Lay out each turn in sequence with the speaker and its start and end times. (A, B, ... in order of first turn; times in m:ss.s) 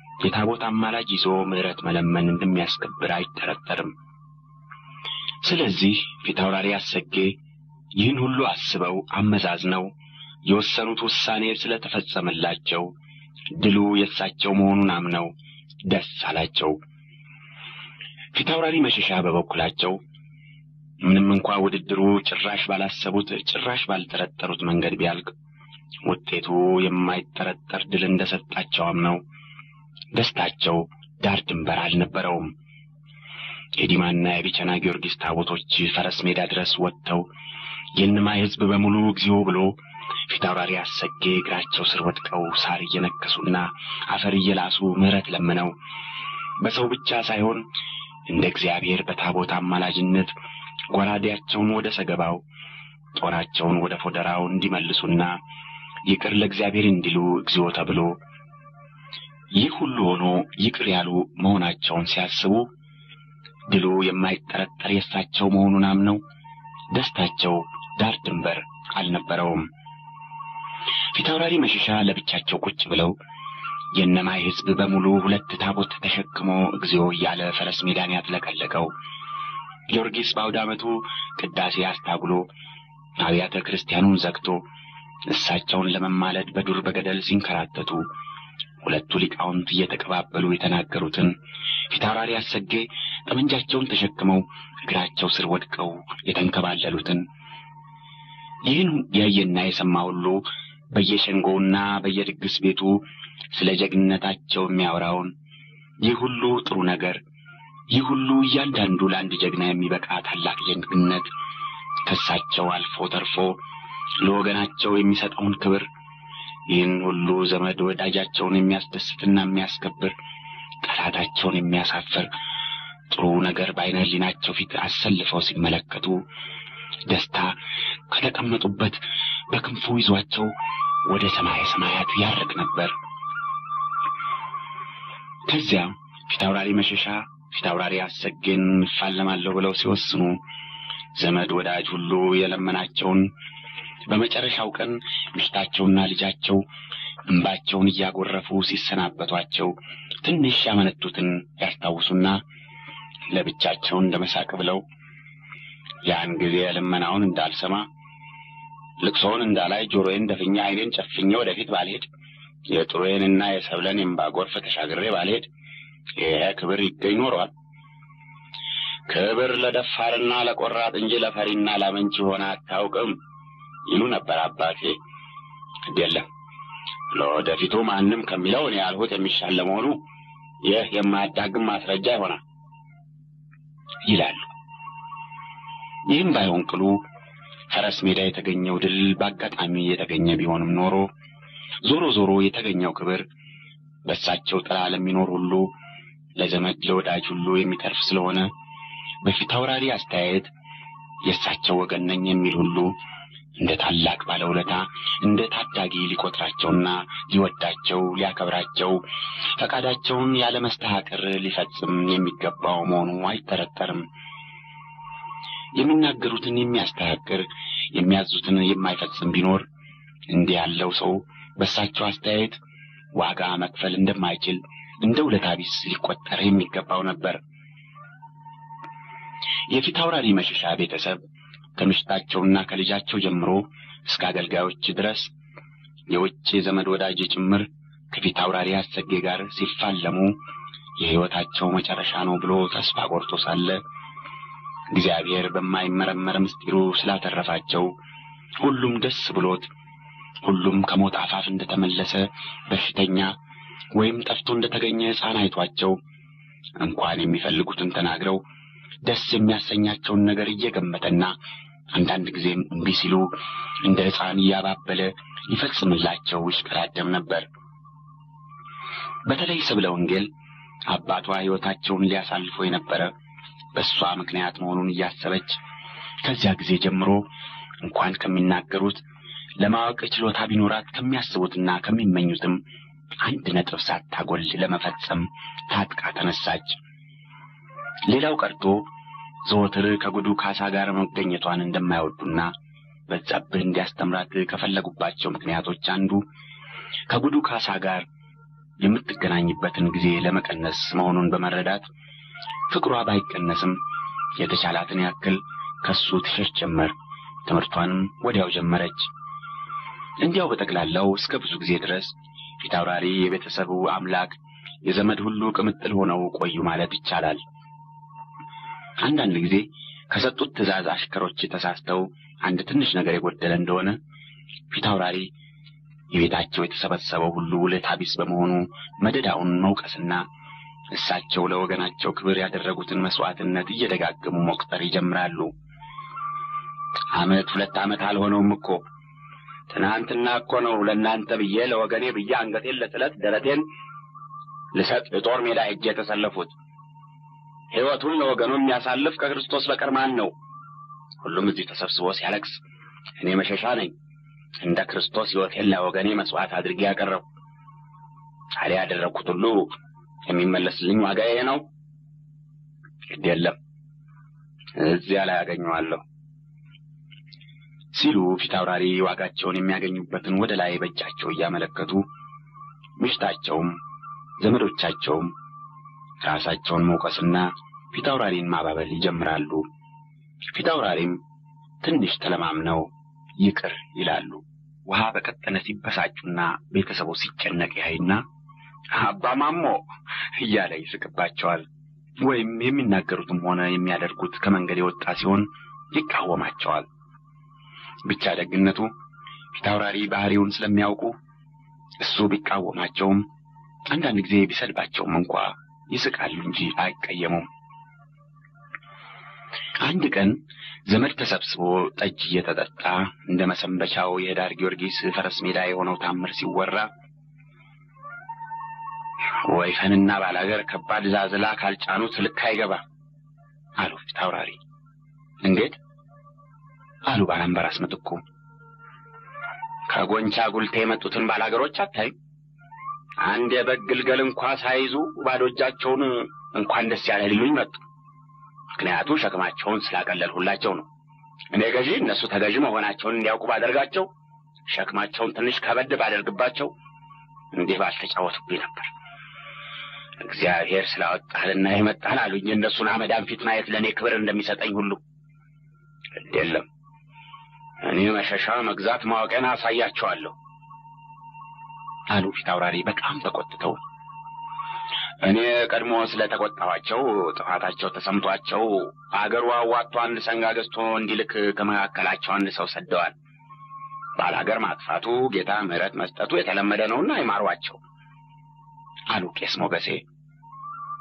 0:00.2-0:03.9 A
0:05.4-0:07.3 A
0:08.0-0:09.9 A
0:10.4-0:12.9 A
0:13.6-0:15.3 A
0:15.8-0:16.8 A
0:18.3-0:20.0 A
0:21.0-0:25.3 A
0:26.0-0:29.2 A
0:30.1-0:32.5 A
0:33.8-0:37.3 A
0:38.0-0:39.8 A
0:40.3-0:45.7 A
0:46.6-0:47.6 A
0:48.3-0:50.3 A
0:50.9-0:52.4 A
0:53.2-0:55.4 A
0:56.0-0:58.2 A
0:59.5-1:02.7 A
1:03.7-1:06.2 A
1:06.9-1:09.7 A
1:11.1-1:13.2 A
1:13.9-1:18.9 A
1:19.9-1:22.5 A
1:23.2-1:24.6 A
1:25.3-1:28.1 A
1:28.8-1:31.3 A
1:31.9-1:37.2 A
1:38.6-1:45.3 A
1:46.0-1:47.2 A
1:47.9-1:51.3 A
1:52.0-1:53.6 A
1:54.2-1:55.9 A
1:56.7-2:00.1 A
2:00.8-2:02.3 A
2:03.1-2:06.2 A
2:07.1-2:07.6 A
2:08.1-2:09.0 A
2:09.5-2:10.5 A
2:11.0-2:12.9 A
2:15.5-2:20.4 A
2:21.1-2:23.3 A
2:24.1-2:26.6 A
2:27.3-2:32.4 A
2:33.3-2:34.8 A
2:36.0-2:37.9 A
2:39.0-2:42.1 A
2:42.7-2:45.5 A
2:46.2-2:47.5 A
2:49.1-2:53.2 A
2:53.9-2:55.0 A
2:55.8-2:56.2 A
2:57.1-3:00.0 A
3:00.6-3:02.4 A
3:04.0-3:04.5 A
3:06.1-3:07.0 A
3:07.7-3:11.1 A
3:11.8-3:13.2 A
3:14.0-3:15.7 A
3:16.4-3:18.5 A
3:19.2-3:20.5 A
3:21.2-3:22.9 A
3:23.6-3:29.0 A
3:29.6-3:34.1 A
3:35.7-3:39.6 A
3:40.3-3:42.6 A
3:43.1-3:47.4 A
3:49.7-3:51.2 A
3:51.8-3:55.3 A
3:56.1-4:00.4 A
4:01.0-4:03.8 A
4:04.9-4:07.9 A
4:08.6-4:09.7 A
4:10.4-4:13.3 A
4:13.9-4:16.0 A
4:16.8-4:18.4 A
4:19.0-4:21.3 A
4:21.9-4:27.4 A
4:29.2-4:30.3 A
4:30.9-4:33.1 A
4:33.7-4:35.6 A
4:36.2-4:37.2 A
4:37.8-4:39.0 A
4:39.6-4:42.6 A
4:43.2-4:46.8 A
4:48.1-4:48.9 A
4:49.4-4:52.5 A
4:53.1-4:56.2 A
4:57.1-4:58.0 A
4:58.8-5:01.8 A
5:02.7-5:03.8 A
5:04.4-5:06.9 A
5:07.4-5:09.1 A
5:10.2-5:17.4 A
5:19.0-5:24.0 A
5:24.7-5:25.3 A
5:26.1-5:30.2 A
5:30.9-5:35.5 A
5:37.1-5:38.8 A
5:39.7-5:43.6 A
5:44.7-5:46.5 A
5:47.7-5:50.3 A
5:51.2-5:52.6 A
5:53.2-5:53.9 A
5:54.6-5:57.2 A
5:58.6-5:59.8 A
6:00.3-6:01.6 A
6:03.1-6:03.6 A
6:04.8-6:06.0 A
6:07.9-6:12.0 A
6:13.0-6:13.8 A
6:14.4-6:15.3 A
6:16.2-6:19.6 A
6:20.5-6:21.2 A
6:21.8-6:28.2 A
6:28.9-6:29.8 A
6:30.4-6:31.6 A
6:32.2-6:36.8 A
6:38.0-6:38.9 A
6:39.5-6:41.2 A
6:42.0-6:43.2 A
6:43.9-6:47.5 A
6:49.8-6:56.9 A
6:59.4-7:02.8 A
7:03.8-7:04.6 A
7:05.4-7:05.8 A
7:07.1-7:08.2 A
7:09.9-7:12.1 A
7:13.2-7:17.8 A
7:18.7-7:20.9 A
7:21.5-7:24.1 A
7:24.7-7:26.7 A
7:27.5-7:28.9 A
7:30.2-7:35.0 A
7:36.1-7:36.6 A
7:37.8-7:40.4 A
7:42.1-7:43.8 A
7:45.2-7:53.1 A
7:54.2-7:57.8 A
7:59.1-8:00.0 A